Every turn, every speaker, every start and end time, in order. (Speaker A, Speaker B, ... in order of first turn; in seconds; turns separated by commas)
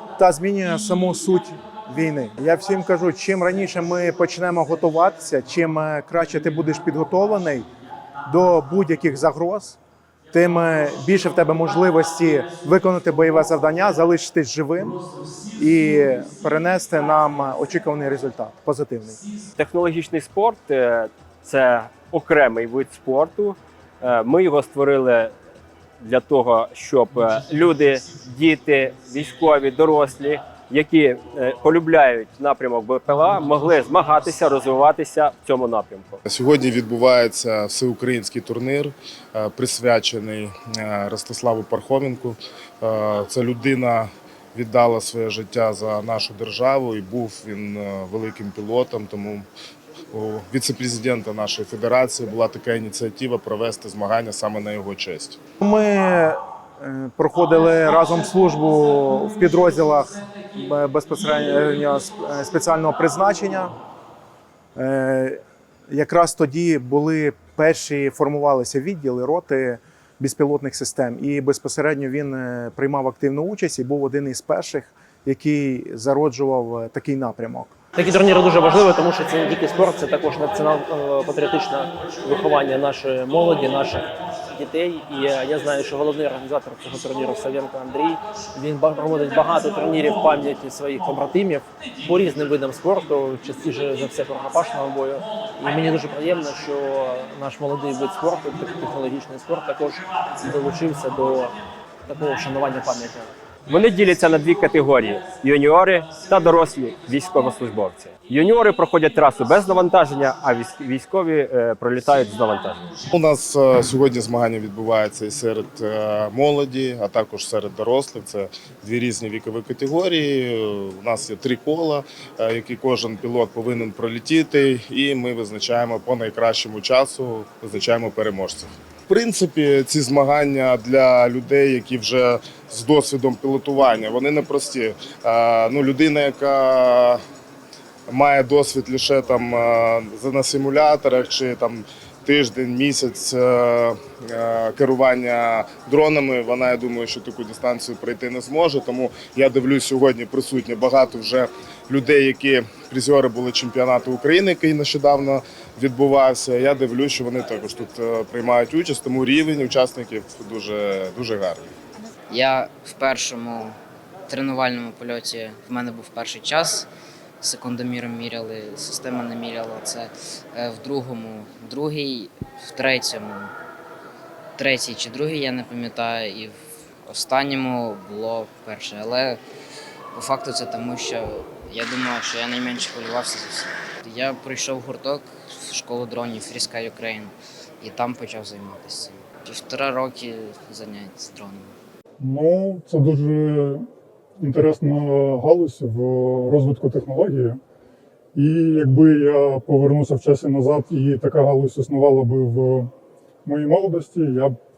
Speaker A: 0.2-7.7, Speaker A: 8.2-9.8, Speaker A: 10.3-19.2, Speaker B: 19.6-25.3, Speaker B: 26.0-36.2, Speaker C: 36.4-49.5, Speaker C: 50.1-55.4, Speaker A: 55.6-63.8, Speaker A: 64.8-77.7, Speaker D: 77.9-101.5, Speaker D: 102.1-103.3, Speaker B: 103.7-112.9, Speaker C: 113.2-137.2, Speaker C: 138.1-161.7, Speaker E: 162.3-163.8, Speaker E: 164.3-166.9, Speaker E: 167.4-173.5, Speaker E: 174.6-179.4, Speaker E: 180.1-191.7, Speaker F: 192.2-193.9, Speaker F: 194.4-197.6, Speaker F: 198.3-202.9, Speaker F: 203.4-204.6